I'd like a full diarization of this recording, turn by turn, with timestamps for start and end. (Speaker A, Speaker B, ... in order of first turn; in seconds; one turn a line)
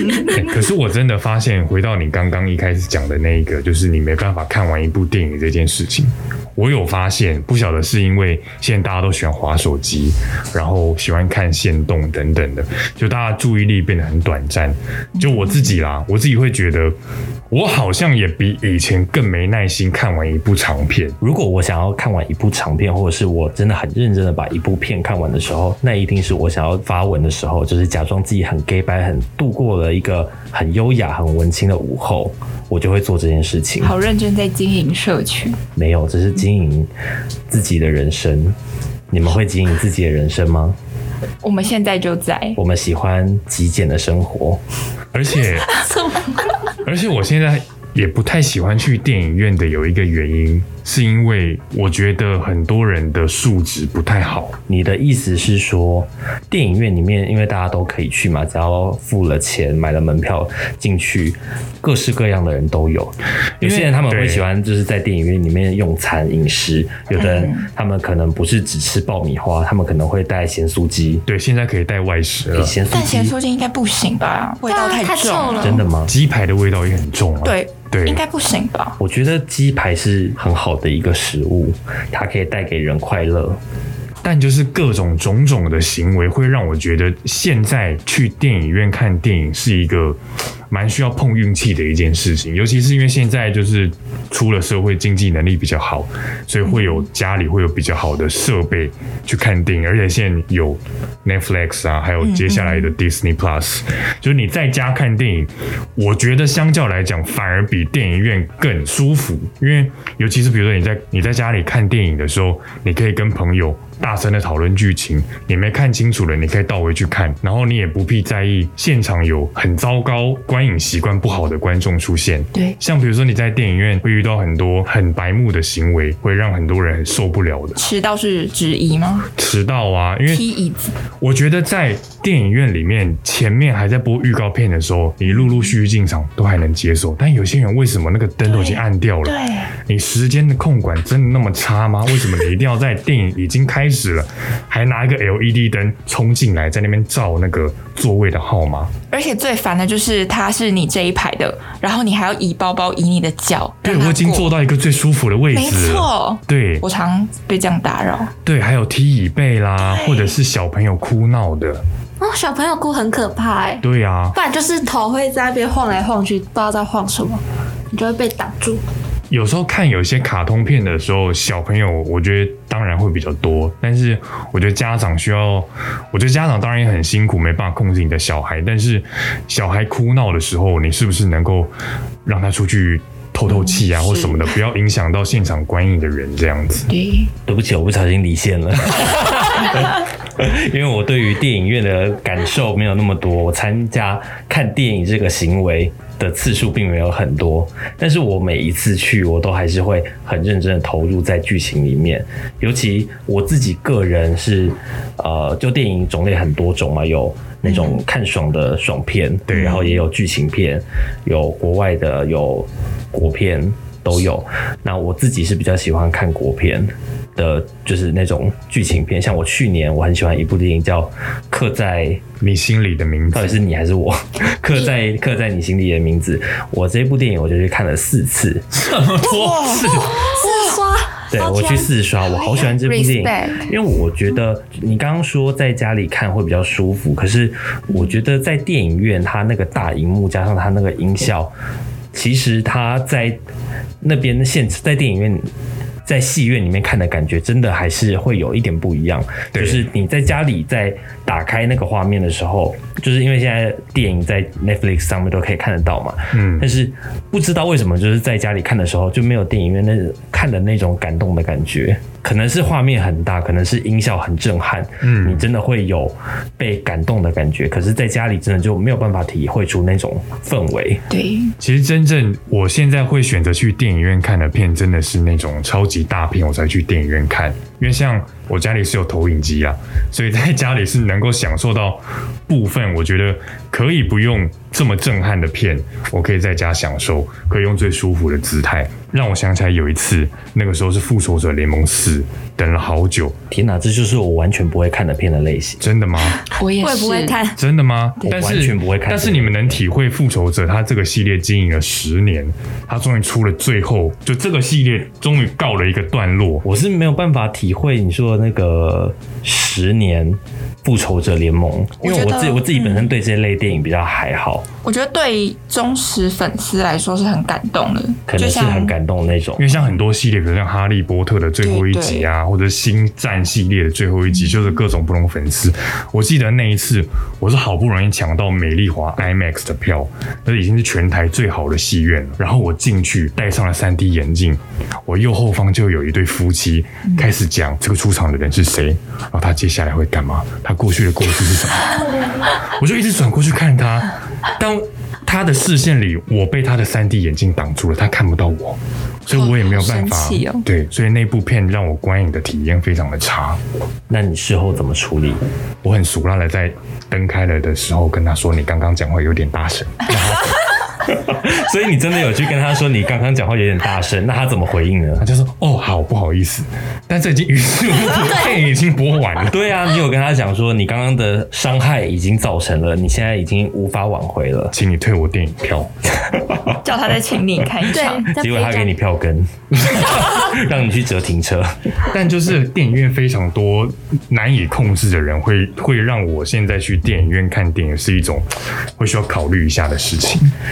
Speaker A: 0.2-16.9
Speaker A: 17.5-21.2
Speaker B: 21.2-33.9
Speaker C: 33.8-35.6
Speaker B: 35.8-36.9
Speaker B: 37.5-38.6
Speaker B: 39.1-40.8
Speaker C: 41.4-42.6
Speaker B: 42.6-44.6
Speaker A: 45.1-45.7
Speaker D: 46.1-46.4
Speaker A: 46.8-54.6
Speaker B: 54.7-71.2
Speaker A: 63.6-64.5
Speaker C: 67.2-67.7
Speaker A: 71.3-72.8
Speaker B: 72.5-73.3
Speaker C: 72.9-75.8
Speaker D: 74.7-75.9
Speaker B: 75.6-76.1
Speaker A: 76.1-78.2
Speaker C: 77.4-79.0
Speaker B: 79.0-83.6
Speaker A: 84.2-90.2
Speaker A: 90.7-127.8
Speaker C: 102.2-102.9
Speaker C: 127.8-129.3
Speaker A: 129.4-130.4
Speaker C: 130.3-130.9
Speaker A: 131.2-148.9
Speaker C: 138.5-139.7
Speaker C: 149.1-154.5
Speaker A: 153.8-156.8
Speaker C: 155.5-158.3
Speaker A: 158.4-161.8
Speaker C: 159.8-160.3
Speaker D: 162.2-168.8
Speaker A: 163.8-164.4
Speaker A: 169.3-181.7
Speaker A: 182.2-186.9
Speaker C: 183.5-184.4
Speaker C: 186.9-187.3
Speaker B: 187.5-222.2
Speaker C: 207.7-208.0
Speaker A: 209.5-209.8
Speaker C: 209.5-209.8
Speaker A: 222.4-223.6
Speaker B: 223.3-228.7
Speaker A: 228.7-230.3
Speaker C: 229.2-230.8
Speaker D: 230.0-231.9
Speaker B: 231.3-241.5
Speaker C: 232.4-233.7
Speaker B: 242.1-243.4
Speaker B: 244.0-245.5
Speaker B: 246.1-271.0
Speaker A: 249.5-249.8
Speaker A: 256.3-256.7
Speaker A: 265.0-265.5
Speaker C: 271.1-271.6
Speaker A: 271.6-293.4
Speaker B: 293.5-295.8
Speaker A: 295.8-296.4
Speaker C: 296.6-297.4
Speaker D: 296.8-297.6
Speaker A: 297.6-306.6
Speaker B: 298.2-299.8
Speaker B: 306.6-314.6
Speaker C: 312.0-313.1
Speaker C: 314.8-318.9
Speaker B: 318.3-319.7
Speaker A: 319.6-353.6
Speaker C: 321.6-322.3
Speaker C: 349.3-350.6
Speaker B: 354.1-355.4
Speaker A: 355.8-360.6
Speaker B: 361.1-365.3
Speaker A: 365.2-369.6
Speaker B: 369.4-374.8
Speaker A: 374.7-375.9
Speaker C: 376.8-378.3
Speaker D: 377.9-378.9
Speaker B: 378.3-381.8
Speaker A: 382.1-388.5
Speaker A: 389.0-390.5